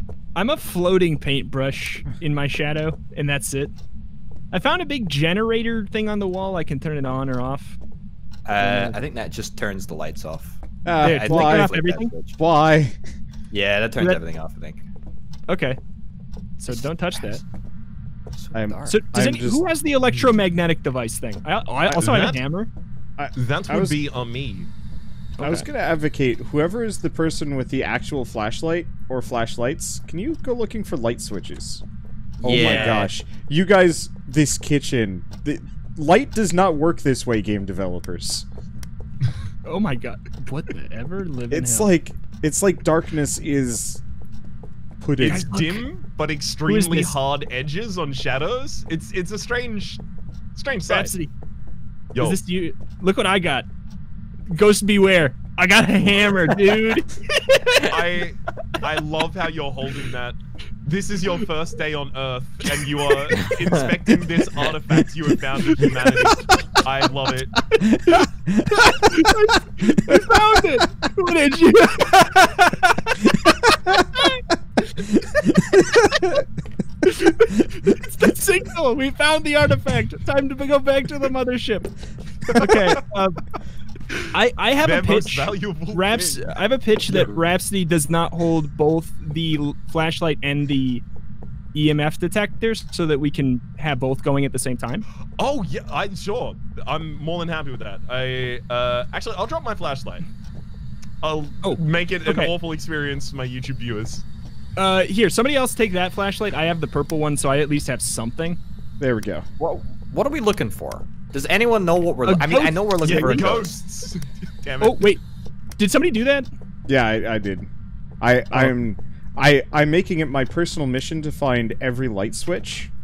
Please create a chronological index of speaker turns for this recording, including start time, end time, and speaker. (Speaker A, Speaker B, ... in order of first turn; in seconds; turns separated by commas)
Speaker A: 0.3-3.7, Speaker A: 4.5-7.8, Speaker B: 8.5-12.4, Speaker A: 8.6-9.0, Speaker C: 10.8-11.8, Speaker A: 11.0-12.1, Speaker C: 12.4-13.0, Speaker B: 13.5-14.8, Speaker A: 15.5-15.8, Speaker A: 16.6-17.4, Speaker B: 16.7-17.4, Speaker B: 18.3-19.0, Speaker C: 18.5-19.6, Speaker A: 18.9-22.7, Speaker C: 21.9-22.3, Speaker D: 22.0-22.4, Speaker C: 23.2-24.0, Speaker D: 23.4-24.7, Speaker C: 25.4-31.8, Speaker C: 32.4-38.5, Speaker B: 32.4-33.1, Speaker A: 32.5-33.1, Speaker A: 39.7-41.9, Speaker C: 41.5-44.0, Speaker C: 45.0-45.5, Speaker D: 45.2-50.0, Speaker A: 45.2-45.9, Speaker A: 46.7-47.2, Speaker D: 50.5-51.1, Speaker A: 50.9-51.3, Speaker D: 52.1-52.4, Speaker A: 52.2-53.7, Speaker A: 54.5-57.9, Speaker D: 56.0-56.6, Speaker D: 57.9-67.5, Speaker A: 63.1-63.4, Speaker B: 63.3-63.9, Speaker A: 65.6-66.5, Speaker A: 67.7-74.4, Speaker C: 67.8-69.3, Speaker C: 69.9-70.8, Speaker C: 73.3-74.3, Speaker A: 75.0-76.4, Speaker C: 75.2-76.5, Speaker A: 77.0-81.9, Speaker D: 82.5-83.0, Speaker A: 82.5-83.4, Speaker A: 84.3-91.0, Speaker D: 84.8-86.5, Speaker D: 87.1-87.4, Speaker A: 91.7-95.0, Speaker D: 95.4-100.3, Speaker D: 101.2-104.2, Speaker A: 101.6-102.5, Speaker A: 104.8-108.6, Speaker C: 109.0-109.5, Speaker B: 109.6-113.7, Speaker A: 112.2-113.6, Speaker D: 113.0-115.2, Speaker A: 114.8-115.2, Speaker A: 115.8-116.5, Speaker C: 116.9-117.7, Speaker C: 118.2-122.9